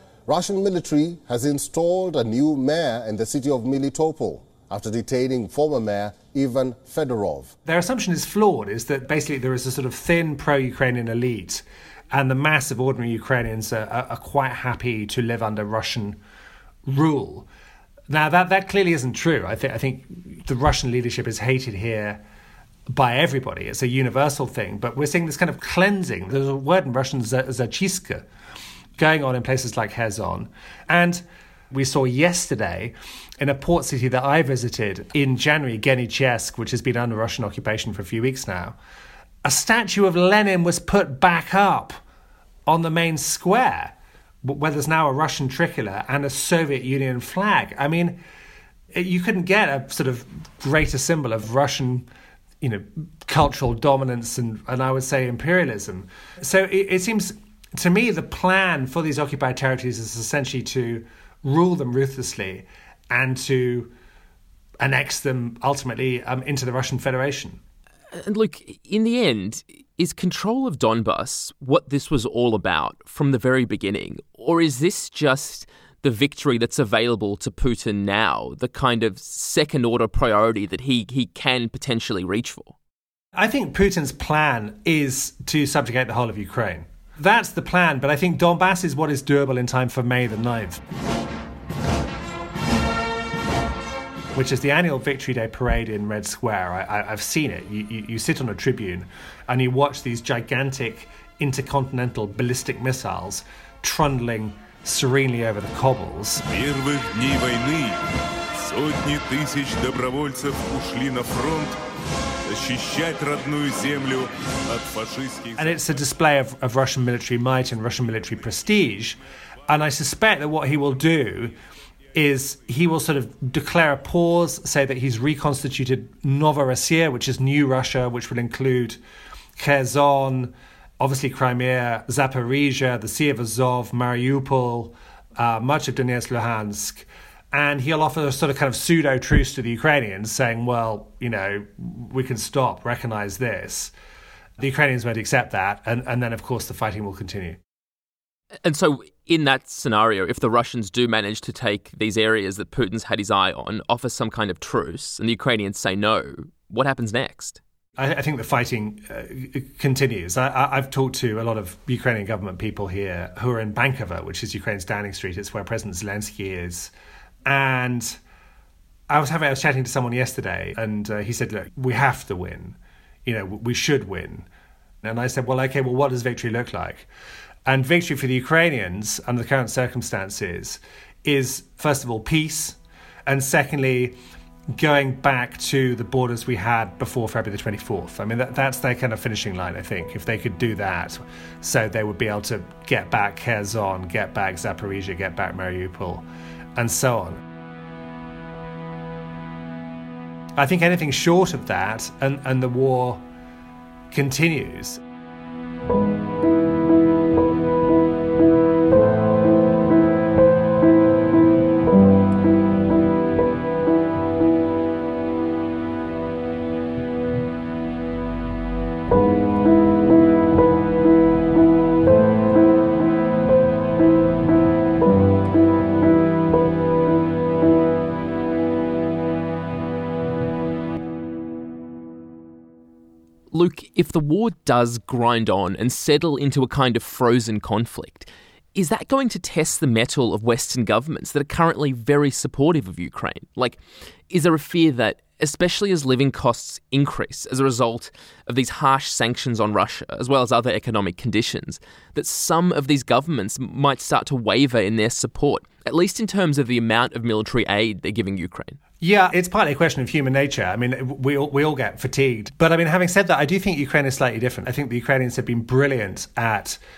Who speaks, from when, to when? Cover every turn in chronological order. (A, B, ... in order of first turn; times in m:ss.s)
0:00.3-0:07.5 A
0:07.6-0:16.2 B
0:16.8-0:17.5 B
0:18.1-0:22.2 B
0:22.9-0:28.2 B
0:29.0-0:38.8 B
0:39.4-0:42.0 B
0:42.7-0:48.2 B
0:48.9-0:52.1 B
0:52.6-1:03.9 B
1:04.8-1:07.6 B
1:08.1-1:22.7 C
1:23.3-1:30.8 B
1:34.3-1:46.4 B
1:46.5-1:51.8 D
1:52.4-1:55.8 D
1:55.6-2:01.6 B
2:02.1-2:09.0 B
2:09.6-2:23.9 B
2:24.6-2:27.6 B
2:28.6-2:37.6 C
2:38.0-2:46.9 B
2:47.4-2:48.2 B
2:49.1-2:54.5 B
2:55.0-2:57.1 B
2:57.6-3:04.2 B
3:04.7-3:17.4 B
3:20.6-3:23.2 B
3:24.1-3:25.0 B
3:53.5-4:03.8 C
4:04.3-4:18.8 C
4:19.0-4:26.8 B